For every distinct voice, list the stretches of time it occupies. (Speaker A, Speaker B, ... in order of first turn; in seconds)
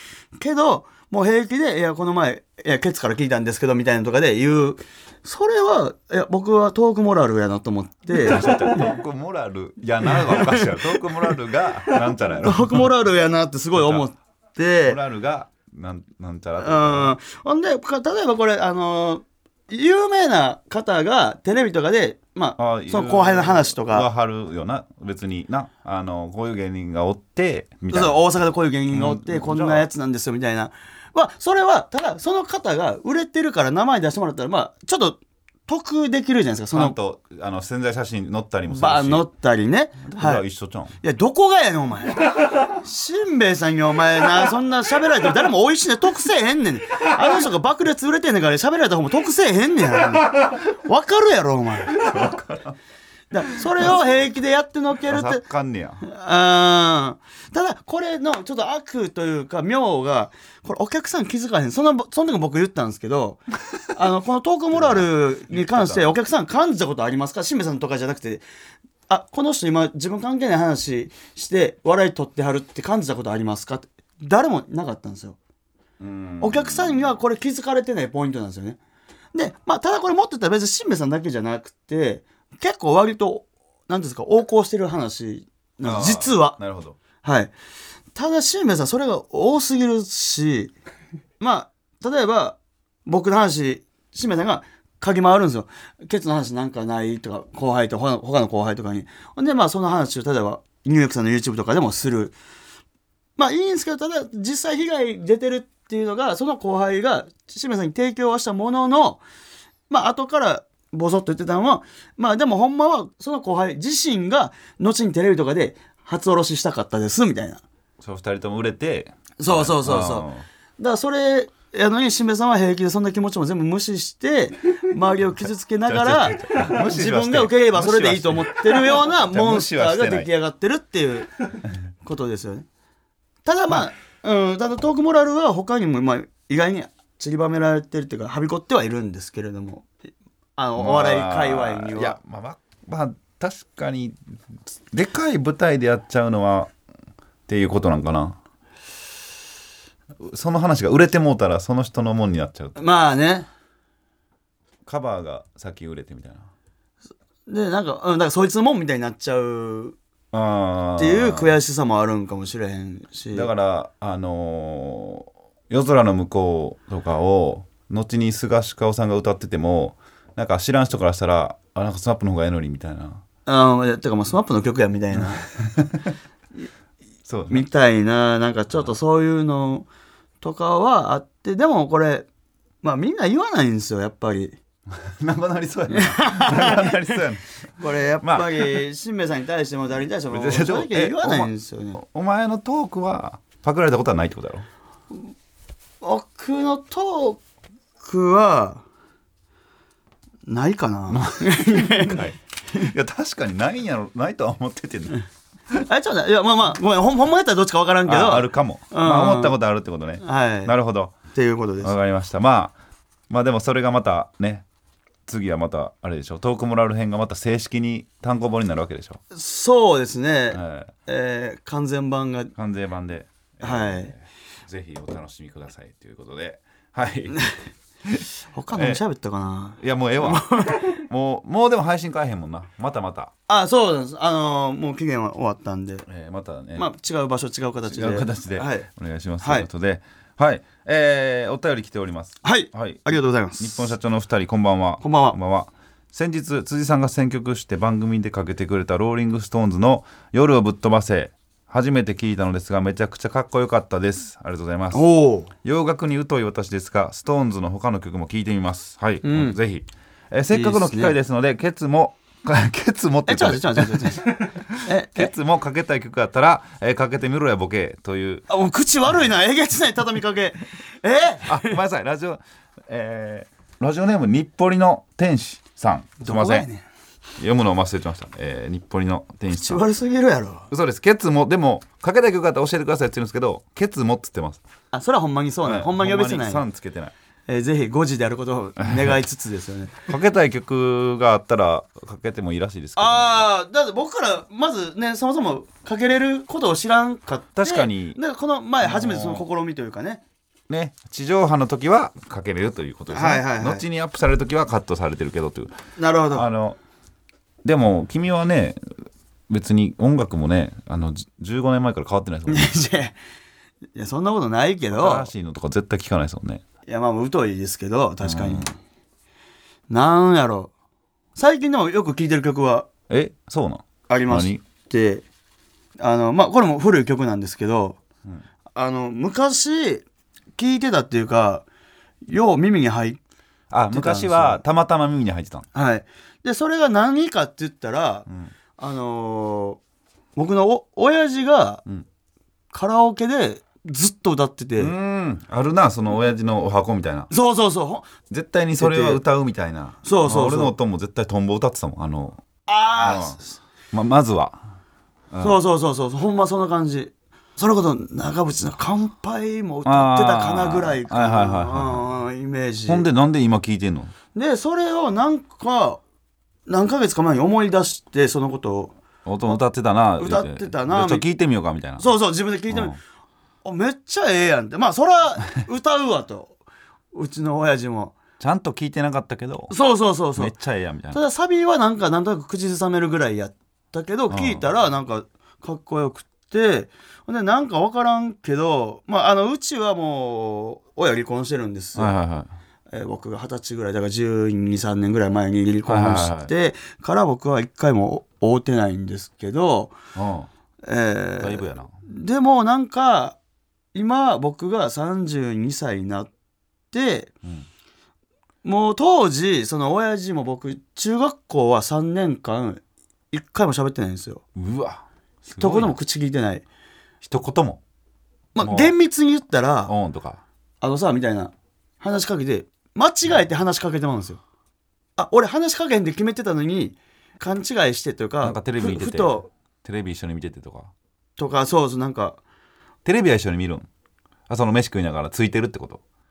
Speaker A: 0.4-8.5, 10.1-11.3, 11.9-15.0, 16.6-24.1, 27.9-37.0, 38.7-40.4, 41.0-52.0, 53.3-55.4, 56.0-63.4, 63.9-68.4, 69.1-75.4, 76.4-78.8, 79.3-86.6, 87.2-87.5, 88.1-90.7, 91.4-102.3, 103.4-109.2, 109.9-117.6, 119.4-120.3, 120.8-131.3, 132.0-132.7, 133.4-139.9, 140.6-142.2, 152.8-153.5, 157.5-159.9, 161.0-163.5, 173.4-175.4, 177.5-179.9, 180.4-182.3, 182.8-184.6, 185.9-187.2, 187.8-192.0, 196.0-197.4, 198.0-198.8, 200.5-202.9, 205.7-209.6, 210.2-210.7, 211.3-211.9, 219.3-222.5, 223.6-224.1, 228.5-231.0, 233.5-236.0, 236.8-238.9, 239.4-239.7, 242.4-243.9, 245.0-245.4, 254.9-255.5, 259.2-259.6, 260.5-261.1, 263.2-265.3, 268.5-271.8, 276.2-276.8, 279.5-280.7, 284.9-286.6, 287.5-290.0, 292.9-300.2, 303.1-303.8, 306.0-306.4, 312.5-313.1, 313.9-315.3, 316.9-318.7, 319.9-320.7, 321.4-322.9, 324.1-325.2, 326.0-328.0, 328.7-330.0, 330.6-331.6, 332.3-333.2, 333.9-334.6, 335.7-339.8, 340.4-341.8, 342.7-344.9, 347.3-348.1, 348.8-349.2, 350.0-350.7, 352.7-353.5, 355.4-363.1, 364.3-366.0, 366.7-368.9, 370.2-371.2, 372.0-373.0, 373.6-376.6, 377.1-378.1, 379.7-380.5, 381.1-392.1, 392.9-399.9, 400.8-403.4, 403.9-406.3, 406.9-407.3, 408.6-414.4, 415.6-416.6, 418.5-419.9, 420.8-424.4, 425.2-429.5, 431.4-432.4
Speaker B: 8.1-12.9, 13.7-14.0, 14.8-17.1, 22.6-28.2, 28.9-29.9, 36.7-39.2, 40.1-40.9, 51.9-52.8, 55.1-56.0, 64.7-66.1, 76.0-77.1, 85.8-87.0, 118.0-120.4, 125.8-130.3, 140.8-146.7, 147.5-148.4, 150.2-152.8, 154.8-156.5, 160.3-161.5, 163.3-173.2, 175.1-176.1, 177.3-177.7, 185.0-187.4, 188.2-188.8, 190.3-194.7, 201.1-205.2, 208.1-211.1, 211.8-212.7, 213.3-214.6, 215.3-219.2, 220.5-220.9, 222.6-227.4, 228.1-229.0, 229.8-233.3, 236.1-236.9, 237.9-243.1, 243.6-255.0, 255.6-268.4, 271.4-276.7, 277.4-279.8, 280.7-284.6, 285.6-287.1, 288.8-289.1, 290.1-293.5, 297.6-298.2, 298.8-299.4, 300.7-305.7, 306.3-306.8, 307.6-312.7, 314.9-316.6, 318.2-318.7, 323.1-324.6, 333.7-335.7, 344.8-347.3, 348.3-352.4, 352.9-353.4, 353.9-354.6, 355.3-355.6, 359.8-362.1, 362.9-364.1, 369.2-372.1, 372.7-373.0, 378.4-379.7, 380.4-381.2, 384.3-384.6, 391.9-392.5, 395.9-396.5, 400.1-400.5, 401.4-401.9, 414.5-415.9, 417.2-417.8, 418.6-418.9, 419.9-420.4, 428.4-430.9, 433.0-433.9, 434.5-436.0